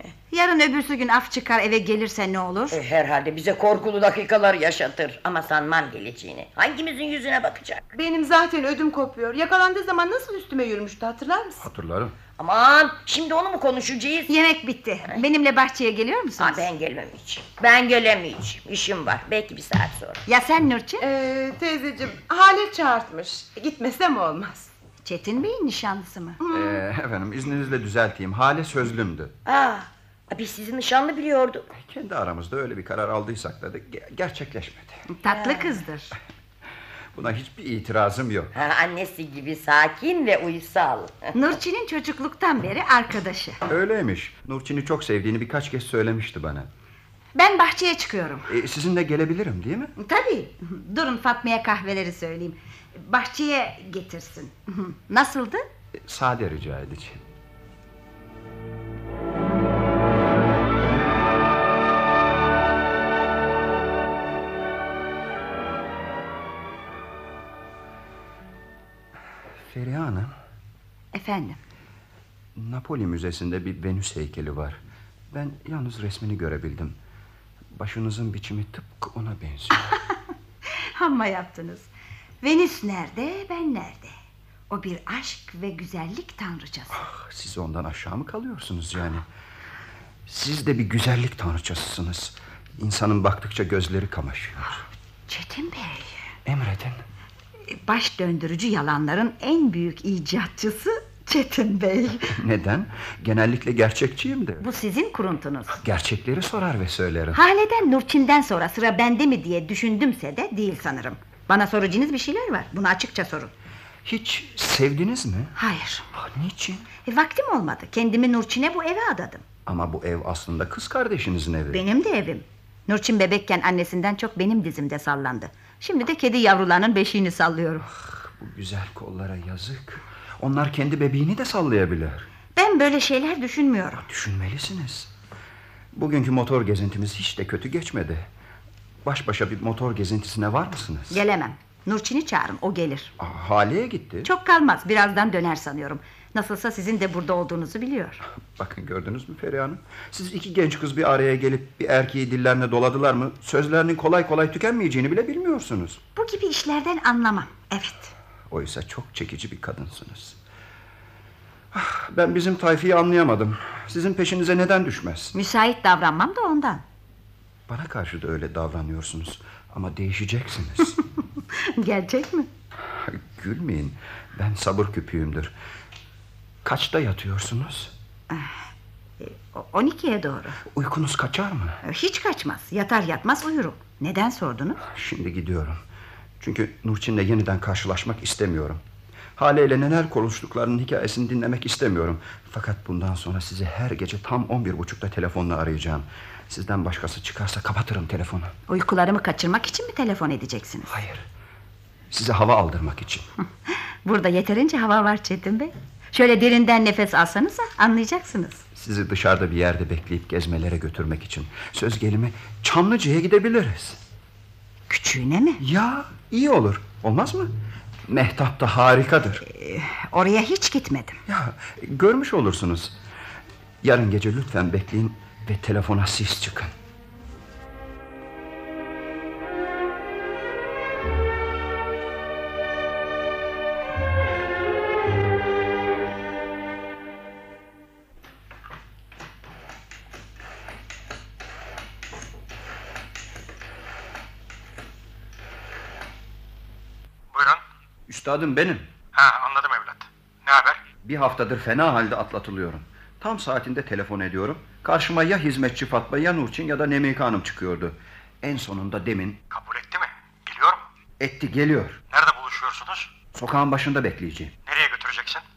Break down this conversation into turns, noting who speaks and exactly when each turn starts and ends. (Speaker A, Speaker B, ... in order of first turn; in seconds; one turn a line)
Speaker A: 0.3-2.8
Speaker B: 2.7-7.8
Speaker C: 7.9-11.6
Speaker D: 11.6-12.2
Speaker B: 12.3-14.3
Speaker A: 14.3-16.6
Speaker B: 16.4-20.2
Speaker A: 20.2-21.0
Speaker C: 21.0-24.7
Speaker A: 25.0-26.4
Speaker D: 26.5-29.3
Speaker B: 29.4-31.6
Speaker D: 31.7-35.0
Speaker A: 35.1-36.1
Speaker D: 37.1-38.5
Speaker B: 38.5-41.3
Speaker A: 41.3-43.6
Speaker D: 43.7-46.7
Speaker A: 47.3-48.5
Speaker D: 48.5-49.9
Speaker A: 50.0-55.6
Speaker D: 56.0-57.2
Speaker D: 69.6-70.3
Speaker A: 71.1-71.6
Speaker D: 72.5-74.8
Speaker D: 75.3-77.0
Speaker D: 77.7-80.0
Speaker A: 81.0-81.9
Speaker A: 82.4-84.1
Speaker A: 84.7-87.0
Speaker D: 86.9-89.2
Speaker D: 90.3-94.8
Speaker A: 95.3-96.1
Speaker D: 96.4-97.0
Speaker A: 97.7-102.3
Speaker D: 102.3-104.7
Speaker A: 104.6-105.8
Speaker D: 105.7-107.4
Speaker A: 107.3-113.5
Speaker D: 114.0-115.5
Speaker A: 115.5-116.0
Speaker D: 116.1-116.9
Speaker A: 117.0-119.4
Speaker D: 119.7-121.8
Speaker A: 121.7-127.8
Speaker D: 127.9-132.3
Speaker A: 132.6-134.0
Speaker D: 134.0-135.1
Speaker D: 135.9-138.3
Speaker D: 139.0-141.2
Speaker A: 141.1-143.1
Speaker D: 143.2-144.3
Speaker A: 144.2-148.2
Speaker D: 148.6-156.0
Speaker A: 156.1-158.1
Speaker D: 158.5-160.4
Speaker D: 161.7-165.3
Speaker A: 165.3-166.8
Speaker D: 167.7-170.9
Speaker A: 171.8-172.5
Speaker D: 172.9-175.5
Speaker D: 176.6-177.9
Speaker A: 178.3-178.6
Speaker A: 179.2-180.6
Speaker D: 180.6-181.8
Speaker A: 181.8-184.8
Speaker D: 184.8-185.8
Speaker D: 186.4-188.8
Speaker D: 189.4-198.5
Speaker A: 198.7-200.9
Speaker D: 200.8-201.2
Speaker D: 202.1-203.3
Speaker A: 203.7-208.6
Speaker D: 208.7-214.0
Speaker A: 214.9-215.6
Speaker D: 215.6-217.5
Speaker D: 218.1-219.4
Speaker A: 219.4-221.2
Speaker D: 221.3-223.0
Speaker D: 223.8-226.7
Speaker E: 247.3-247.6
Speaker D: 248.1-248.9
Speaker E: 249.1-250.8
Speaker D: 251.0-259.4
Speaker E: 259.5-260.8
Speaker D: 261.2-262.0
Speaker E: 262.1-263.1
Speaker D: 263.3-264.5
Speaker E: 264.6-265.4